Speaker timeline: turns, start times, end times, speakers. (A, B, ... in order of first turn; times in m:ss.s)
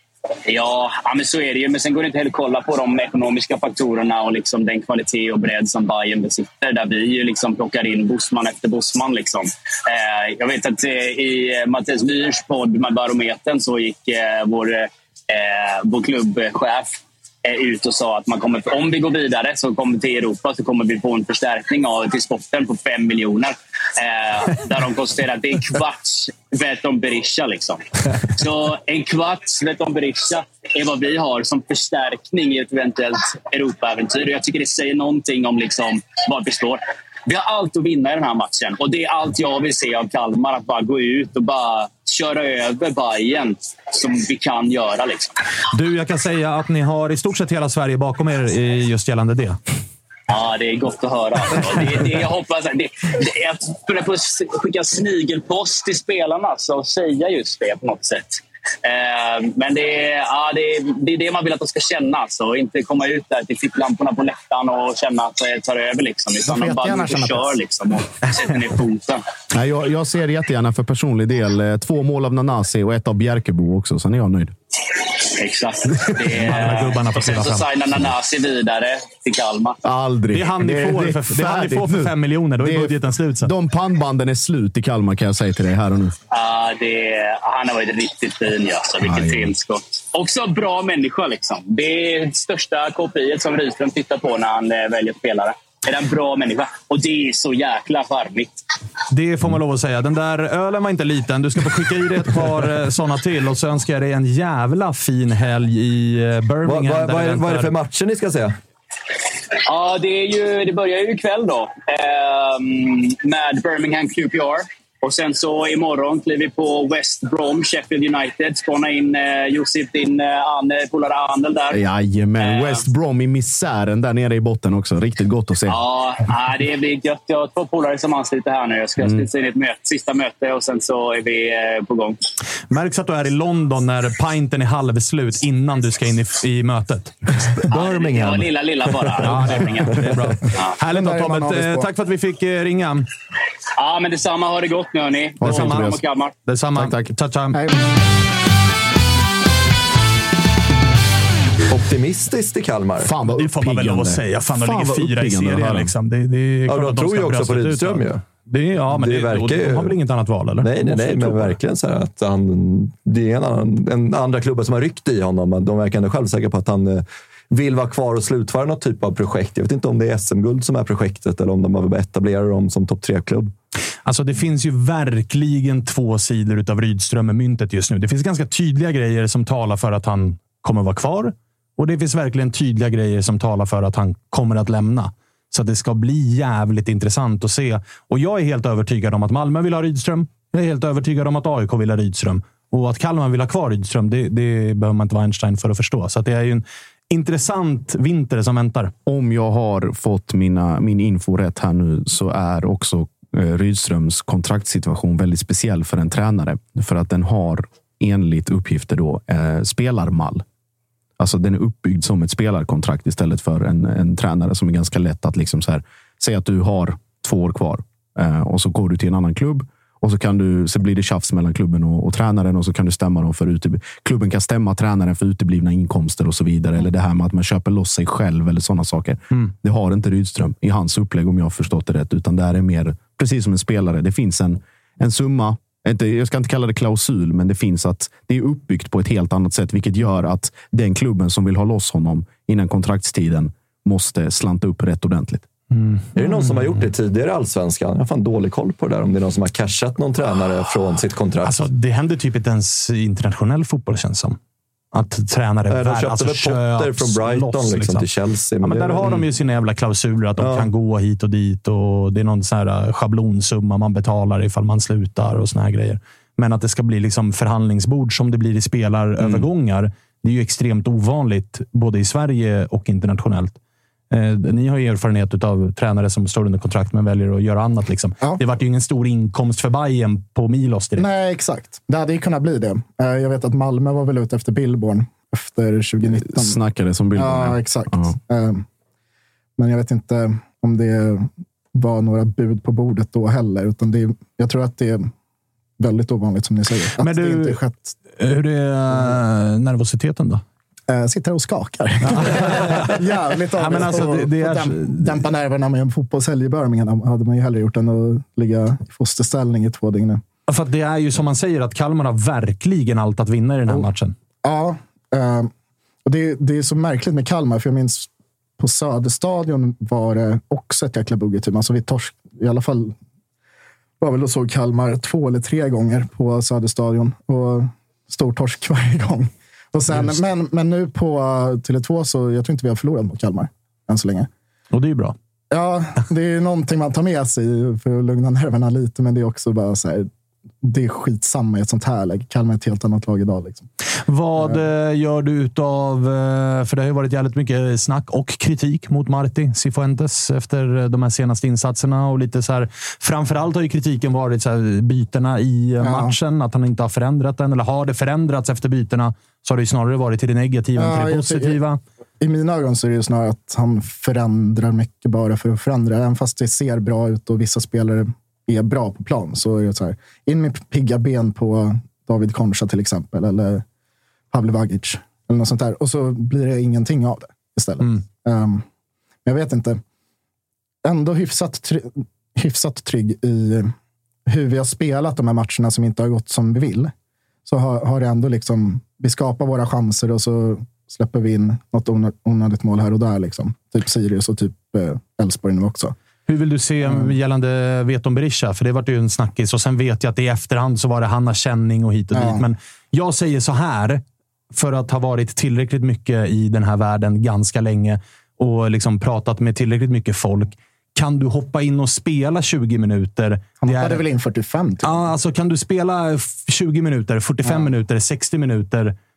0:00.5-0:45.4 A
0:45.7-0:49.6 B
0:50.3-1:09.2 A
1:06.5-1:07.6 C
1:09.5-1:14.5 D
1:15.2-1:19.8 A
1:16.4-1:17.6 B
1:19.8-1:26.1 D
1:20.3-1:23.5 B
1:26.3-1:38.6 A
1:29.0-1:29.5 D
1:39.1-1:47.7 B
1:46.6-1:48.5 E
1:49.7-2:01.8 A
2:01.7-2:05.8 D
2:02.4-2:02.8 A
2:05.7-2:12.2 A
2:09.0-2:09.3 D
2:12.7-2:17.2 B
2:17.6-2:20.0 E
2:17.7-2:20.8 A
2:19.2-2:23.0 B
2:20.9-2:21.9 C
2:23.8-2:26.4 A
2:25.4-2:26.0 D
2:25.4-2:25.8 B
2:26.4-2:27.6 B
2:26.8-2:27.1 D
2:27.5-2:27.8 C
2:31.7-2:33.1 E
2:33.0-2:35.9 D
2:33.4-2:41.6 B
2:36.7-2:38.2 E
2:38.9-2:40.0 E
2:40.6-2:53.5 E
2:54.0-3:18.9 B
3:19.0-3:30.4 D
3:31.2-4:05.4 D
4:05.7-4:06.8 B
4:06.1-4:11.6 E
4:11.4-4:14.4 B
4:14.9-4:18.0 B
4:15.7-4:19.2 E
4:18.6-4:33.6 B
4:20.4-4:20.7 E
4:29.2-4:29.5 D
4:34.1-4:41.1 B
4:41.0-4:46.6 C
4:46.2-4:48.1 D
4:47.2-4:48.6 C
4:49.6-4:55.1 C
4:55.8-4:58.0 C
4:57.0-4:57.6 B
4:58.2-5:00.4 B
5:00.9-5:10.2 C
5:02.0-5:03.0 B
5:03.5-5:05.2 B
5:10.5-5:14.1 B
5:14.4-5:15.5 C
5:16.0-5:18.1 C
5:18.6-5:22.9 C
5:24.0-5:34.3 C
5:29.9-5:30.2 B
5:34.7-5:35.1 B
5:35.5-5:40.1 C
5:40.6-5:43.7 C
5:44.1-6:01.8 B
5:55.8-5:56.1 C
6:00.8-6:01.6 C
6:02.2-6:13.6 C
6:14.3-6:18.6 C
6:19.2-6:19.8 C
6:20.8-6:23.7 C
6:24.3-6:26.9 C
6:27.4-6:36.0 C
6:36.3-6:54.0 B
6:36.8-6:37.1 C
6:42.1-6:42.4 C
6:53.6-6:55.1 C
6:54.8-6:58.9 B
6:57.4-6:57.7 C